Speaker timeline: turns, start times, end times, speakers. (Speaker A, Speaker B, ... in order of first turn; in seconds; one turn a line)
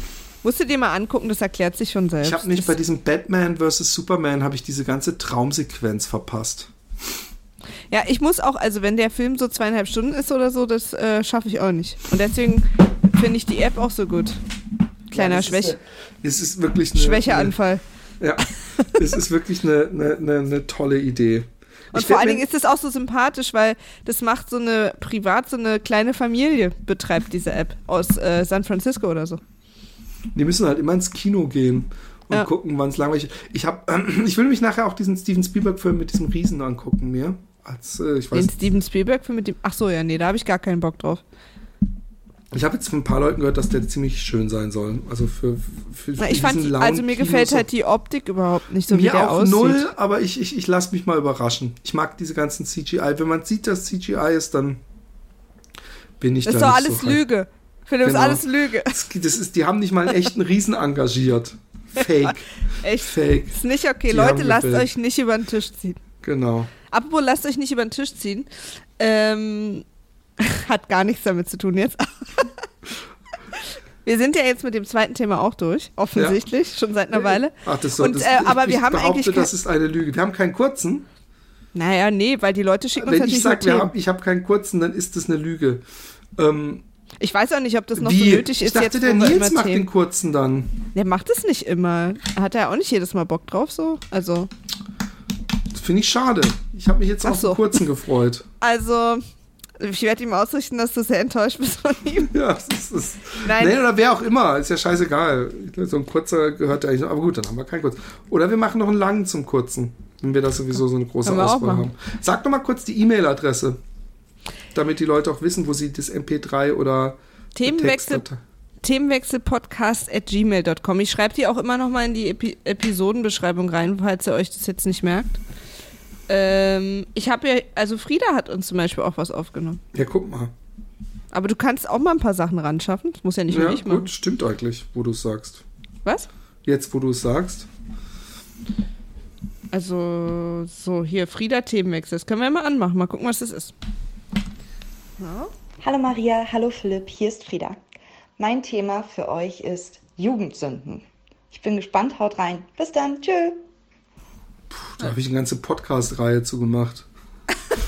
Speaker A: 0.4-2.8
Speaker B: 2.2-6.7
Speaker A: 7.9-14.4
Speaker A: 15.1-15.8
Speaker B: 15.1-17.5
Speaker A: 16.9-17.8
Speaker B: 18.2-22.4
Speaker A: 21.9-29.4
Speaker B: 30.3-38.5
Speaker A: 38.3-41.2
Speaker B: 42.5-47.6
Speaker A: 46.2-49.8
Speaker B: 48.9-54.8
Speaker B: 56.2-57.2
Speaker A: 56.4-59.0
Speaker B: 58.0-63.5
Speaker A: 62.2-66.0
Speaker B: 64.1-64.9
Speaker B: 66.2-66.7
Speaker A: 66.9-68.5
Speaker A: 69.0-69.8
Speaker A: 70.4-72.7
Speaker A: 74.0-79.5
Speaker B: 77.1-81.0
Speaker A: 81.7-83.9
Speaker B: 83.0-85.8
Speaker B: 86.3-86.8
Speaker A: 87.2-89.8
Speaker B: 88.0-90.8
Speaker A: 90.9-94.5
Speaker B: 95.7-98.5
Speaker A: 97.2-97.7
Speaker A: 98.6-99.2
Speaker A: 99.8-102.3
Speaker B: 102.3-113.8
Speaker A: 103.4-103.8
Speaker A: 111.2-111.9
Speaker B: 114.7-118.4
Speaker A: 117.5-118.2
Speaker A: 118.8-125.4
Speaker A: 126.3-129.8
Speaker B: 129.9-130.5
Speaker A: 131.3-134.1
Speaker B: 133.5-135.6
Speaker B: 136.6-137.7
Speaker A: 139.7-143.7
Speaker A: 145.2-145.5
Speaker C: 145.8-147.8
Speaker C: 148.4-153.6
Speaker B: 154.8-157.1